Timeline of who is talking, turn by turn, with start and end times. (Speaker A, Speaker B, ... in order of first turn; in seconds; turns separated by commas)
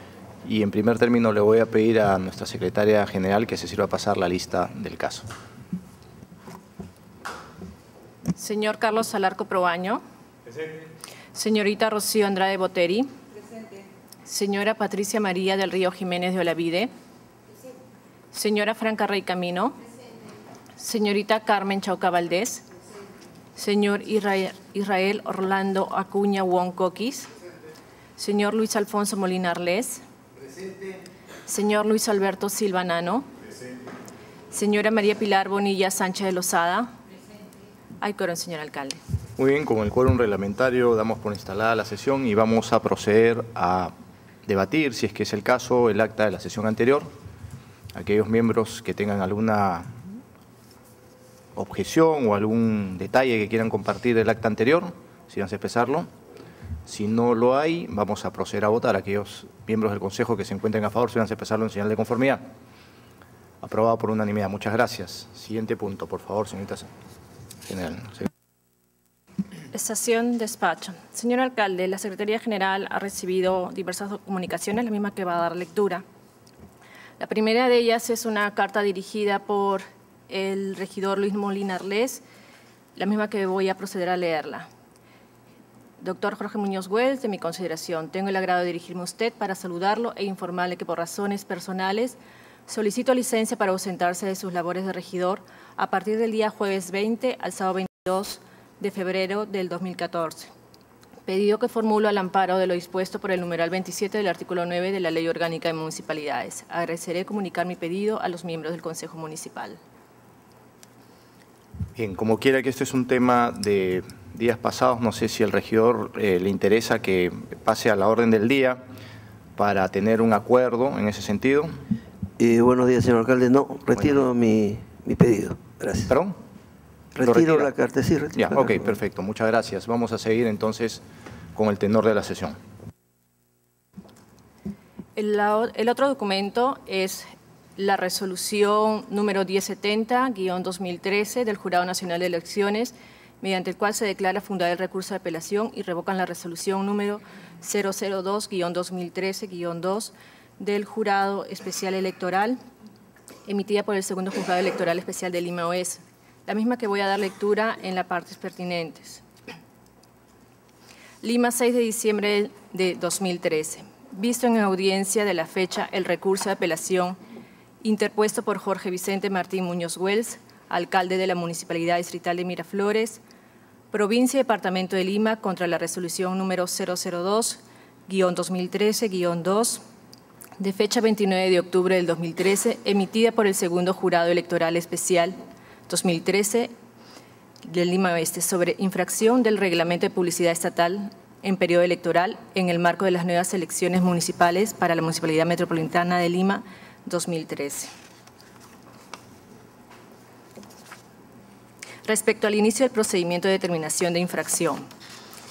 Speaker A: 0.4-5.2, Speaker B: 8.3-10.0, Speaker B: 11.3-13.1, Speaker B: 14.2-16.9, Speaker B: 18.3-19.8, Speaker B: 20.8-22.6, Speaker B: 23.6-27.3, Speaker B: 28.2-30.0, Speaker B: 31.5-33.3, Speaker B: 34.5-36.9, Speaker B: 38.0-39.0, Speaker A: 39.4-43.9, Speaker A: 44.4-47.1, Speaker A: 47.9-49.9, Speaker A: 51.5-56.1, Speaker A: 56.9-62.4, Speaker A: 63.6-66.9, Speaker A: 67.6-68.3, Speaker B: 69.7-76.0, Speaker B: 77.2-82.2, Speaker B: 83.0-84.7, Speaker B: 86.0-100.5, Speaker B: 101.3-109.8, Speaker A: 111.9-118.8, Speaker A: 119.5-121.7, Speaker C: 122.4-126.1, Speaker A: 124.0-124.2, Speaker A: 126.1-126.4, Speaker C: 127.2-128.8, Speaker A: 127.2-127.7, Speaker A: 128.3-132.6, Speaker B: 135.2-137.2, Speaker B: 137.8-152.6, Speaker B: 153.4-159.2, Speaker B: 161.2-167.2, Speaker B: 167.8-173.2, Speaker B: 173.9-179.8, Speaker B: 180.6-185.3, Speaker B: 185.9-186.7, Speaker B: 187.6-197.9, Speaker B: 202.0-204.8